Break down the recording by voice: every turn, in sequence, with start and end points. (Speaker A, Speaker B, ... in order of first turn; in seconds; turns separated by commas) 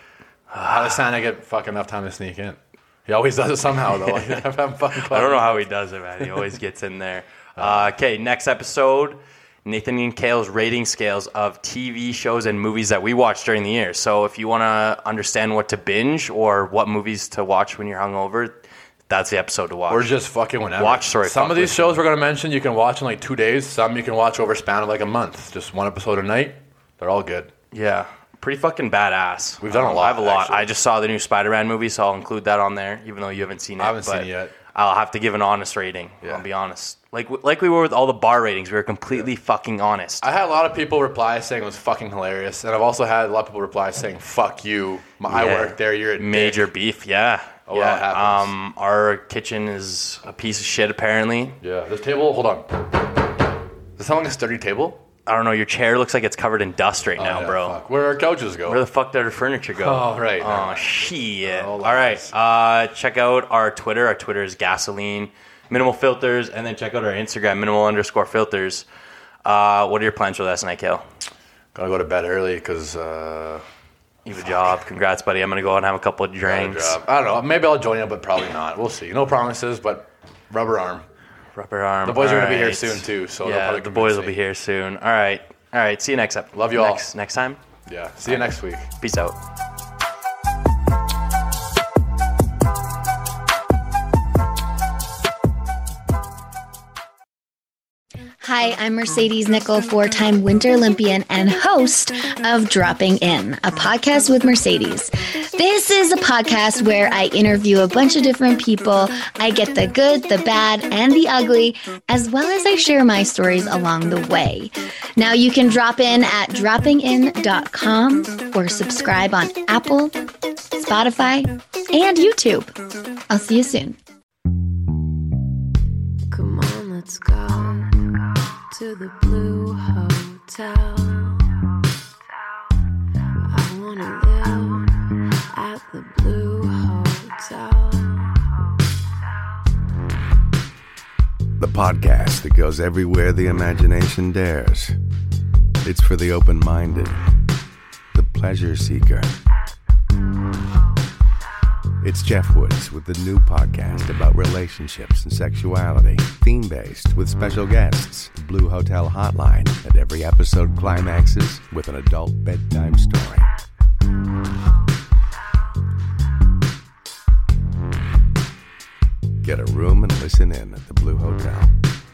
Speaker A: 0.5-1.0, Speaker B: 0.6-5.7, Speaker A: 5.0-20.1, Speaker B: 7.5-7.9, Speaker B: 19.9-27.5, Speaker A: 20.8-22.0, Speaker A: 27.7-40.2, Speaker B: 29.6-30.7, Speaker B: 33.8-34.5, Speaker B: 40.2-46.7, Speaker A: 45.3-51.6, Speaker B: 47.7-48.5, Speaker B: 51.6-52.7, Speaker B: 54.0-55.0, Speaker A: 55.2-57.8, Speaker B: 57.2-58.8, Speaker A: 58.6-68.9, Speaker B: 59.8-62.3, Speaker A: 69.4-71.0, Speaker B: 71.7-73.6, Speaker A: 74.2-77.0, Speaker B: 76.4-81.0, Speaker A: 81.5-87.6, Speaker B: 82.0-84.3, Speaker B: 86.5-87.1, Speaker B: 87.8-88.9, Speaker A: 89.0-89.3, Speaker C: 98.4-120.2, Speaker C: 120.8-122.7, Speaker C: 123.3-124.0, Speaker D: 126.3-131.7, Speaker D: 133.5-138.6, Speaker E: 141.6-144.9, Speaker E: 145.8-147.2, Speaker E: 148.1-149.3, Speaker E: 152.0-163.5, Speaker E: 169.4-171.7